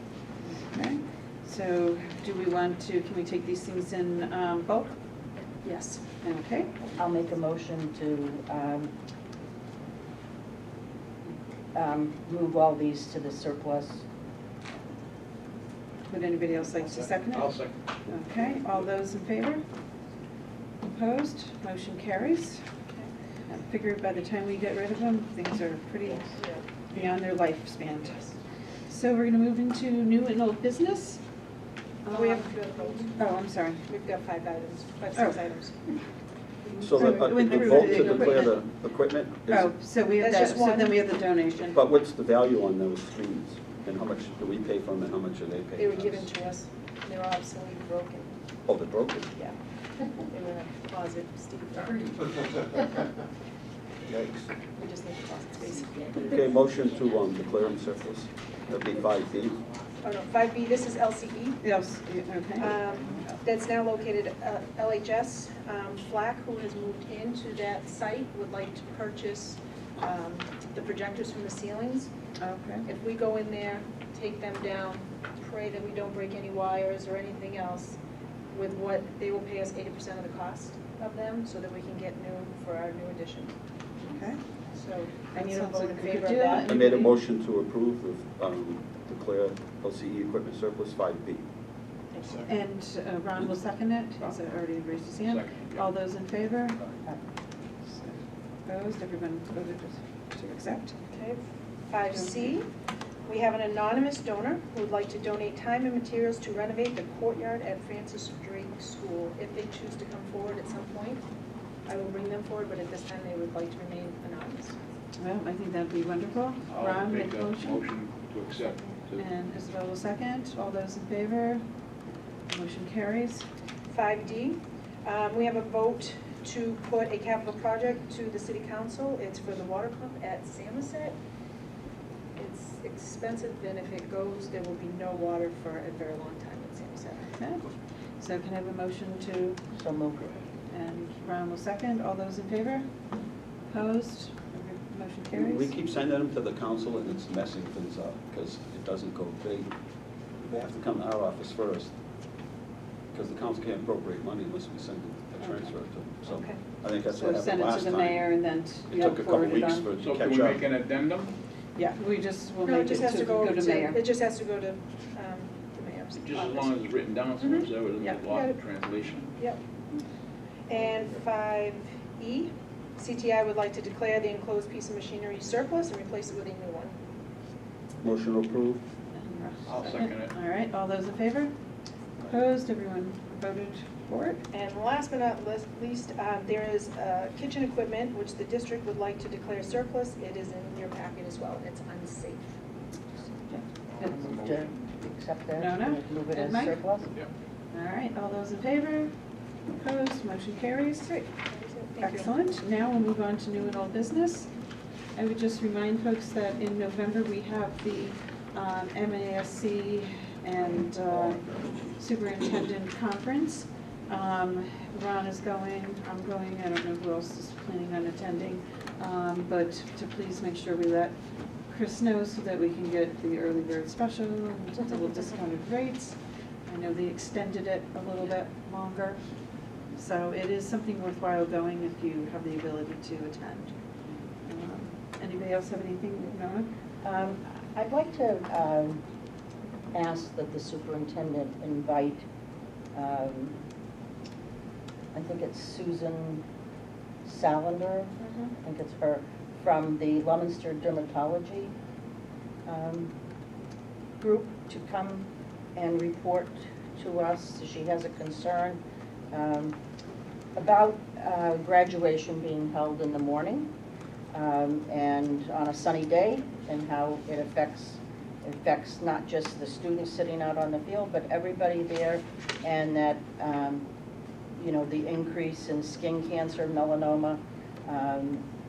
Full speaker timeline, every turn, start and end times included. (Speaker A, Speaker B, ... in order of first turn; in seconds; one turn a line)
Speaker A: 0.6-4.9
Speaker B: 5.6-6.0
Speaker A: 6.2-6.7
Speaker C: 7.0-8.9
Speaker C: 11.7-14.0
Speaker A: 16.1-19.6
Speaker D: 16.8-17.8
Speaker D: 18.4-18.9
Speaker A: 20.8-22.6
Speaker A: 23.5-26.4
Speaker B: 26.4-26.6
Speaker A: 26.9-28.3
Speaker A: 28.9-31.2
Speaker A: 32.1-32.5
Speaker B: 32.1-33.3
Speaker A: 33.2-33.9
Speaker B: 33.9-35.8
Speaker E: 36.8-39.8
Speaker A: 36.8-38.5
Speaker A: 39.5-41.8
Speaker B: 40.2-41.1
Speaker E: 41.6-46.3
Speaker B: 45.8-48.3
Speaker E: 48.7-49.3
Speaker B: 49.4-52.1
Speaker E: 54.1-54.5
Speaker B: 54.7-56.2
Speaker E: 56.1-59.6
Speaker B: 60.0-61.6
Speaker A: 61.6-63.4
Speaker B: 62.6-72.1
Speaker A: 72.4-72.9
Speaker B: 72.9-78.0
Speaker B: 78.5-83.5
Speaker A: 84.0-84.4
Speaker B: 84.7-86.8
Speaker A: 85.3-87.1
Speaker E: 86.6-91.5
Speaker B: 92.1-92.5
Speaker A: 92.5-96.9
Speaker D: 95.2-95.9
Speaker A: 97.8-101.0
Speaker B: 101.1-102.7
Speaker B: 103.3-111.2
Speaker B: 111.9-114.8
Speaker A: 115.2-117.8
Speaker D: 116.7-119.2
Speaker A: 119.2-121.6
Speaker A: 122.5-123.5
Speaker B: 123.9-131.2
Speaker B: 132.4-137.3
Speaker A: 137.4-137.7
Speaker A: 138.2-139.6
Speaker C: 139.7-140.3
Speaker A: 140.7-142.9
Speaker A: 143.7-145.7
Speaker E: 145.3-149.7
Speaker E: 150.4-151.9
Speaker E: 153.1-158.4
Speaker A: 155.4-155.7
Speaker B: 156.2-156.6
Speaker A: 157.1-159.9
Speaker E: 158.9-160.7
Speaker D: 160.0-161.3
Speaker A: 161.8-164.0
Speaker B: 162.6-166.7
Speaker D: 166.2-169.3
Speaker B: 167.4-167.7
Speaker B: 168.3-168.6
Speaker B: 170.7-177.0
Speaker E: 178.0-178.8
Speaker A: 179.1-181.5
Speaker D: 179.7-180.3
Speaker A: 182.2-184.4
Speaker B: 184.5-192.4
Speaker D: 193.9-194.8
Speaker C: 194.0-197.1
Speaker A: 195.6-196.8
Speaker A: 197.7-199.1
Speaker A: 199.7-201.2
Speaker B: 201.0-202.3
Speaker A: 202.0-204.5
Speaker A: 205.2-211.5
Speaker A: 212.0-221.2
Speaker A: 221.7-229.2
Speaker A: 229.9-233.8
Speaker A: 234.4-236.7
Speaker C: 237.0-239.0
Speaker C: 239.9-242.3
Speaker C: 242.9-243.6
Speaker C: 245.1-246.4
Speaker C: 247.2-251.7
Speaker B: 248.2-248.5
Speaker C: 252.7-253.1
Speaker C: 254.2-259.8
Speaker C: 260.6-263.7
Speaker C: 264.3-273.9
Speaker C: 274.6-278.5